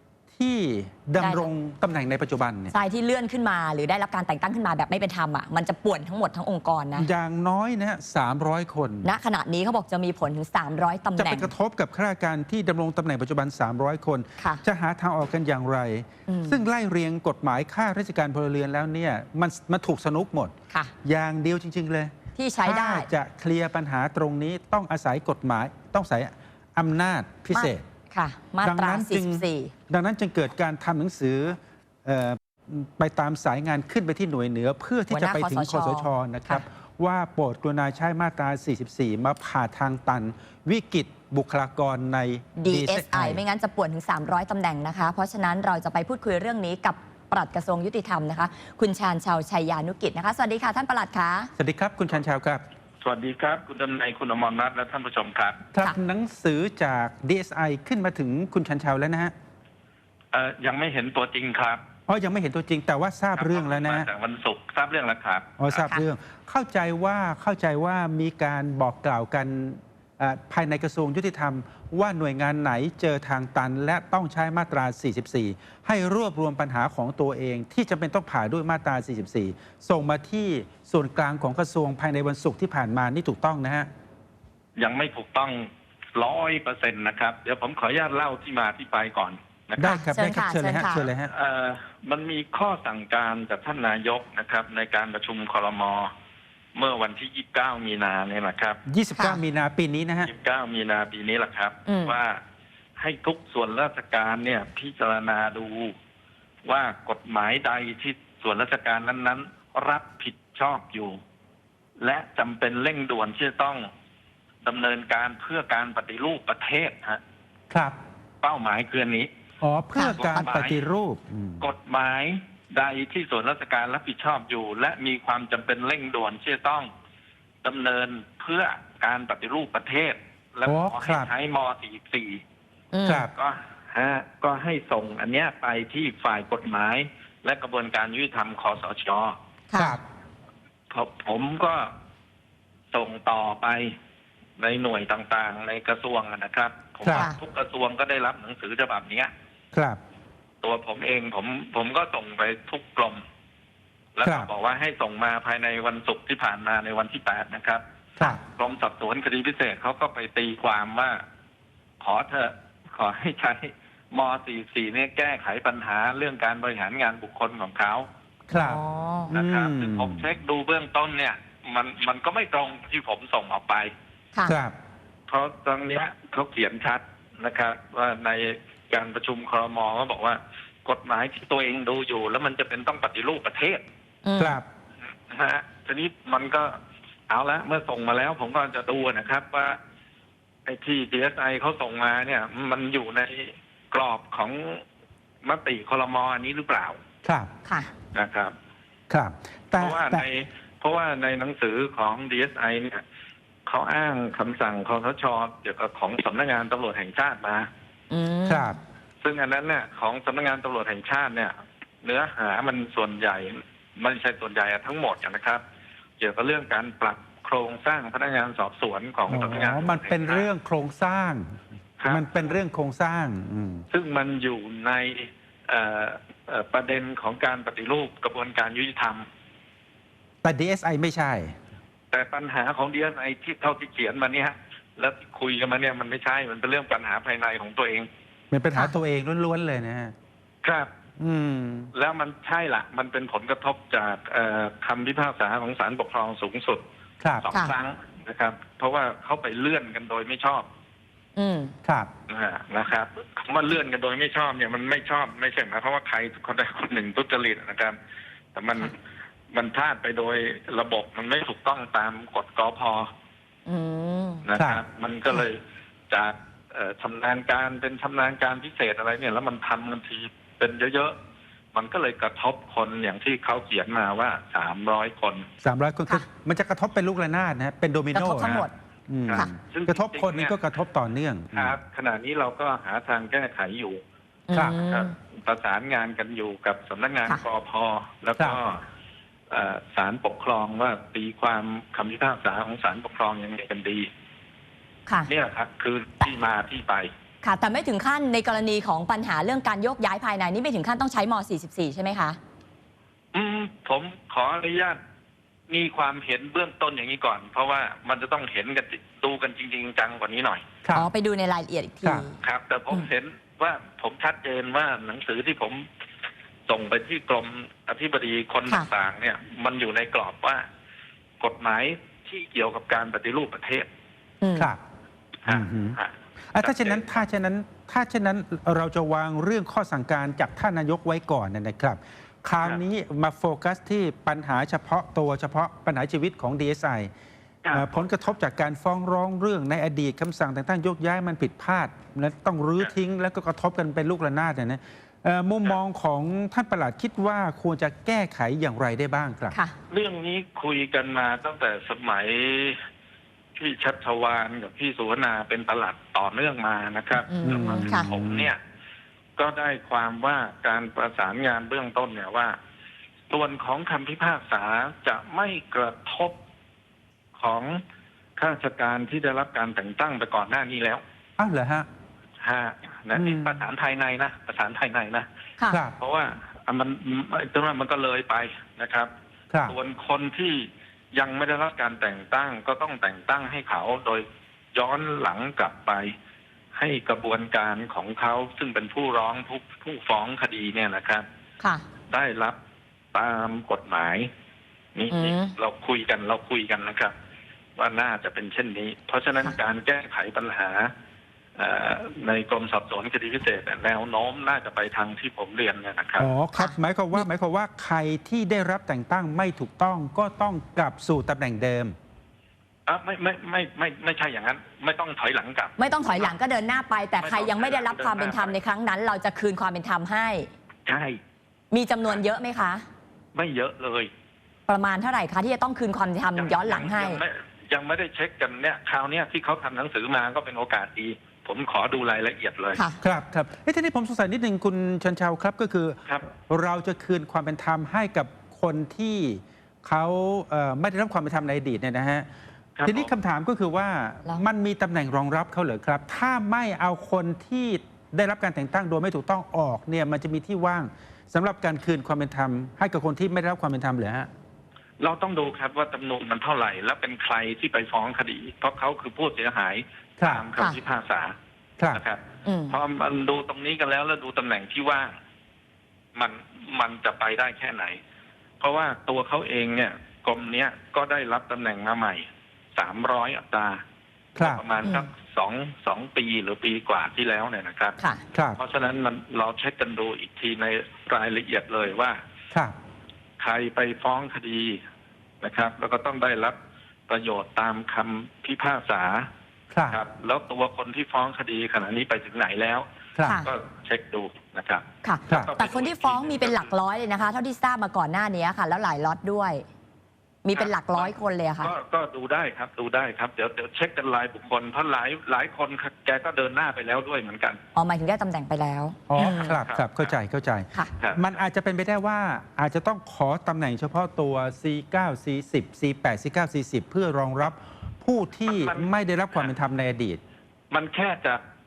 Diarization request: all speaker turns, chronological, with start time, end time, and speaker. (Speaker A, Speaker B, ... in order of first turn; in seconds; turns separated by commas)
Speaker A: 0.4-2.7, Speaker B: 1.2-1.5, Speaker B: 2.7-7.1, Speaker A: 7.0-9.1, Speaker B: 9.0-11.5, Speaker A: 11.2-27.8, Speaker B: 16.3-16.6, Speaker B: 22.4-23.1, Speaker B: 27.5-29.7, Speaker A: 28.6-43.4, Speaker B: 35.1-36.6, Speaker B: 42.6-51.5, Speaker A: 51.6-52.6, Speaker C: 53.0-55.6, Speaker A: 55.7-59.3, Speaker C: 60.3-61.8, Speaker A: 62.1-64.1, Speaker C: 63.3-65.7, Speaker A: 65.6-83.9, Speaker C: 84.8-89.9, Speaker A: 89.8-91.3, Speaker B: 89.8-91.1, Speaker C: 91.2-96.1, Speaker C: 96.8-98.8, Speaker A: 98.9-100.3, Speaker C: 100.3-102.4, Speaker B: 101.9-102.2, Speaker C: 103.0-106.0, Speaker C: 106.7-111.2, Speaker C: 112.0-113.9, Speaker C: 114.6-117.2, Speaker A: 117.7-118.0, Speaker C: 118.4-119.3, Speaker A: 119.6-121.7, Speaker B: 120.0-120.4, Speaker C: 120.0-120.8, Speaker C: 121.6-126.9, Speaker C: 127.6-132.4, Speaker A: 130.7-131.3, Speaker B: 132.9-133.3, Speaker A: 133.1-133.3, Speaker C: 133.3-139.4, Speaker B: 139.7-140.0, Speaker A: 139.8-140.0, Speaker C: 140.9-141.9, Speaker C: 142.9-143.9, Speaker C: 144.6-149.3, Speaker A: 147.0-147.3, Speaker B: 147.1-147.4, Speaker A: 149.7-150.0, Speaker C: 150.6-153.2, Speaker C: 154.2-157.8, Speaker A: 154.2-154.5, Speaker C: 158.4-161.2, Speaker C: 162.0-168.1, Speaker A: 168.5-170.3, Speaker B: 168.5-169.3, Speaker C: 169.3-173.9, Speaker A: 174.4-174.8, Speaker C: 175.3-183.8, Speaker B: 184.2-184.6, Speaker A: 184.4-184.7, Speaker C: 185.3-186.8, Speaker C: 187.3-189.8, Speaker C: 190.7-194.8, Speaker C: 195.4-197.0, Speaker A: 197.2-197.5, Speaker B: 197.7-197.9, Speaker C: 198.1-198.5, Speaker A: 199.1-200.2, Speaker C: 199.8-203.0, Speaker C: 203.7-207.7, Speaker B: 208.1-208.8, Speaker A: 208.5-208.8, Speaker C: 209.2-215.6, Speaker C: 216.2-220.5, Speaker A: 219.3-223.9, Speaker C: 222.0-222.3, Speaker C: 223.9-229.3, Speaker A: 230.4-231.6, Speaker C: 232.1-238.1, Speaker A: 238.5-240.1, Speaker C: 240.6-240.9, Speaker A: 241.2-241.9, Speaker C: 241.9-246.8, Speaker A: 247.2-247.5, Speaker C: 247.4-250.7, Speaker B: 251.4-251.7, Speaker A: 251.8-252.1, Speaker C: 252.3-258.0, Speaker C: 258.6-258.9, Speaker C: 259.5-263.1, Speaker B: 263.7-264.4, Speaker C: 264.4-271.2, Speaker A: 264.6-264.8, Speaker C: 271.7-275.5, Speaker A: 275.6-281.8, Speaker B: 278.1-278.7, Speaker C: 279.3-280.6, Speaker C: 281.5-284.0, Speaker B: 284.5-285.1, Speaker A: 284.5-284.8, Speaker C: 284.9-288.8, Speaker C: 289.5-294.1, Speaker C: 295.3-297.1, Speaker B: 297.4-302.4, Speaker C: 303.3-305.0, Speaker C: 305.7-310.6, Speaker B: 310.9-312.4, Speaker C: 312.4-315.9, Speaker C: 316.7-320.7, Speaker C: 321.4-323.9, Speaker B: 324.4-324.7, Speaker A: 324.6-324.8, Speaker C: 325.4-327.2, Speaker A: 325.5-326.0, Speaker A: 326.5-337.1, Speaker C: 337.6-337.9, Speaker A: 337.7-349.6, Speaker C: 349.9-352.8, Speaker C: 353.6-358.6, Speaker B: 357.3-358.1, Speaker A: 357.4-358.5, Speaker C: 359.4-362.6, Speaker C: 363.3-366.4, Speaker C: 367.4-367.8, Speaker C: 368.4-371.0, Speaker A: 371.4-371.9, Speaker C: 372.4-375.3, Speaker A: 373.1-373.6, Speaker A: 375.7-376.0, Speaker C: 376.0-379.1, Speaker A: 379.5-379.8, Speaker C: 379.7-386.1, Speaker C: 386.8-391.2, Speaker C: 392.1-392.6, Speaker C: 393.1-394.3, Speaker C: 394.9-397.1, Speaker B: 395.1-395.5, Speaker C: 397.8-400.9, Speaker C: 401.6-406.3, Speaker A: 406.2-411.9, Speaker B: 406.5-407.3, Speaker C: 412.9-416.3, Speaker B: 415.8-420.5, Speaker C: 417.2-418.6, Speaker C: 420.9-421.2, Speaker B: 421.7-422.9, Speaker C: 423.4-424.1, Speaker B: 424.7-427.2, Speaker C: 426.4-432.8, Speaker B: 432.7-433.0, Speaker A: 433.0-442.3, Speaker C: 442.8-443.1, Speaker A: 442.9-454.3, Speaker C: 455.0-461.3, Speaker A: 460.2-460.5, Speaker C: 461.9-465.1, Speaker B: 462.4-462.8, Speaker C: 466.1-468.0, Speaker C: 468.6-473.8, Speaker C: 474.4-478.0, Speaker A: 474.4-474.6, Speaker B: 478.0-478.2, Speaker A: 478.3-478.6, Speaker C: 478.6-482.2, Speaker C: 483.4-484.8, Speaker C: 485.4-486.6, Speaker C: 487.1-489.3, Speaker A: 489.7-490.0, Speaker C: 489.9-496.7, Speaker A: 493.1-493.4, Speaker B: 495.0-499.6, Speaker B: 500.4-501.7, Speaker C: 500.5-507.6, Speaker B: 507.8-509.6, Speaker A: 509.1-520.2, Speaker C: 509.2-510.1, Speaker C: 511.0-511.4, Speaker C: 518.5-519.5, Speaker C: 520.7-521.4